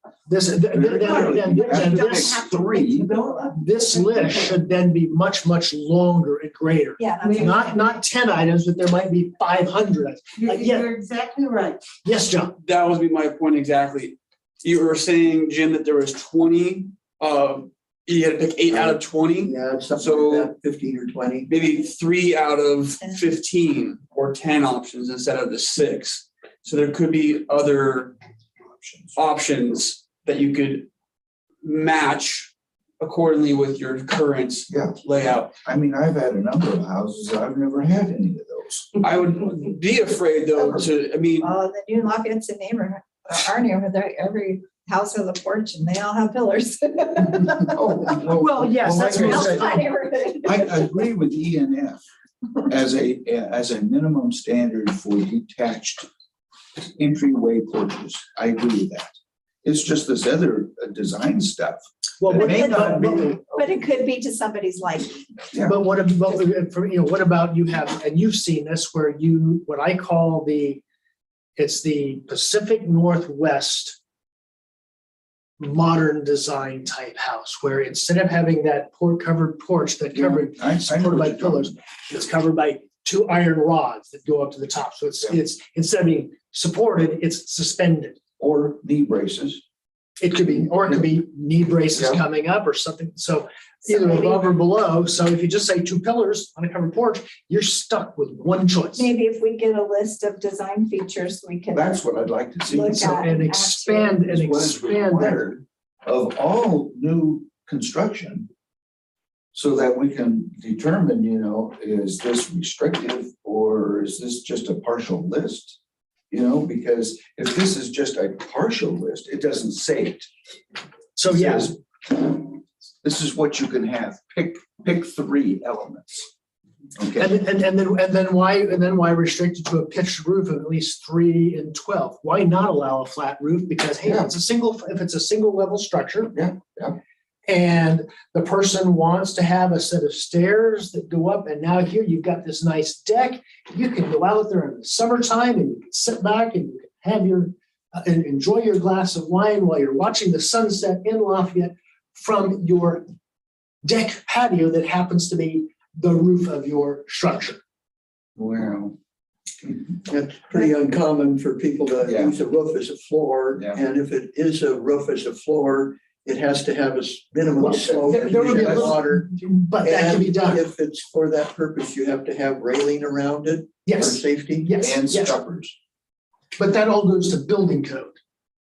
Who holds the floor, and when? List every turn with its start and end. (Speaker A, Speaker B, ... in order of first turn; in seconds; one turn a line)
Speaker A: 0.3-2.3
Speaker B: 0.7-3.1
Speaker C: 1.1-4.6
Speaker A: 3.5-10.9
Speaker D: 7.0-7.6
Speaker C: 7.2-7.6
Speaker C: 10.4-11.8
Speaker A: 12.0-12.6
Speaker E: 12.6-20.5
Speaker F: 18.7-21.5
Speaker E: 21.5-28.1
Speaker B: 28.7-29.2
Speaker E: 29.1-30.9
Speaker E: 31.6-35.5
Speaker B: 34.7-38.9
Speaker E: 39.0-41.5
Speaker D: 40.6-40.9
Speaker D: 41.4-48.1
Speaker B: 47.7-49.7
Speaker A: 48.4-49.8
Speaker D: 48.8-50.9
Speaker C: 48.9-49.1
Speaker B: 50.4-52.0
Speaker B: 52.7-56.1
Speaker B: 56.8-59.1
Speaker B: 59.6-63.8
Speaker A: 62.2-63.3
Speaker D: 62.3-65.2
Speaker B: 65.5-65.8
Speaker A: 65.6-70.8
Speaker A: 71.6-74.0
Speaker A: 75.6-88.2
Speaker B: 80.1-81.8
Speaker B: 88.4-89.6
Speaker A: 90.2-99.1
Speaker B: 91.9-92.2
Speaker D: 93.8-94.4
Speaker D: 99.0-102.0
Speaker B: 101.7-103.0
Speaker D: 102.7-104.2
Speaker A: 102.9-105.4
Speaker B: 104.2-108.5
Speaker B: 109.5-115.8
Speaker B: 116.3-120.3
Speaker A: 121.2-121.7
Speaker B: 121.2-126.3
Speaker B: 127.0-127.3
Speaker A: 127.2-136.3
Speaker B: 134.0-134.3
Speaker B: 136.3-137.0
Speaker A: 137.5-153.1
Speaker A: 153.8-157.6
Speaker B: 158.4-158.9
Speaker F: 160.0-174.7
Speaker B: 162.0-162.3
Speaker B: 163.6-163.8
Speaker B: 167.6-169.0
Speaker A: 167.6-170.6
Speaker A: 173.8-175.3
Speaker B: 174.8-175.7
Speaker A: 176.6-178.2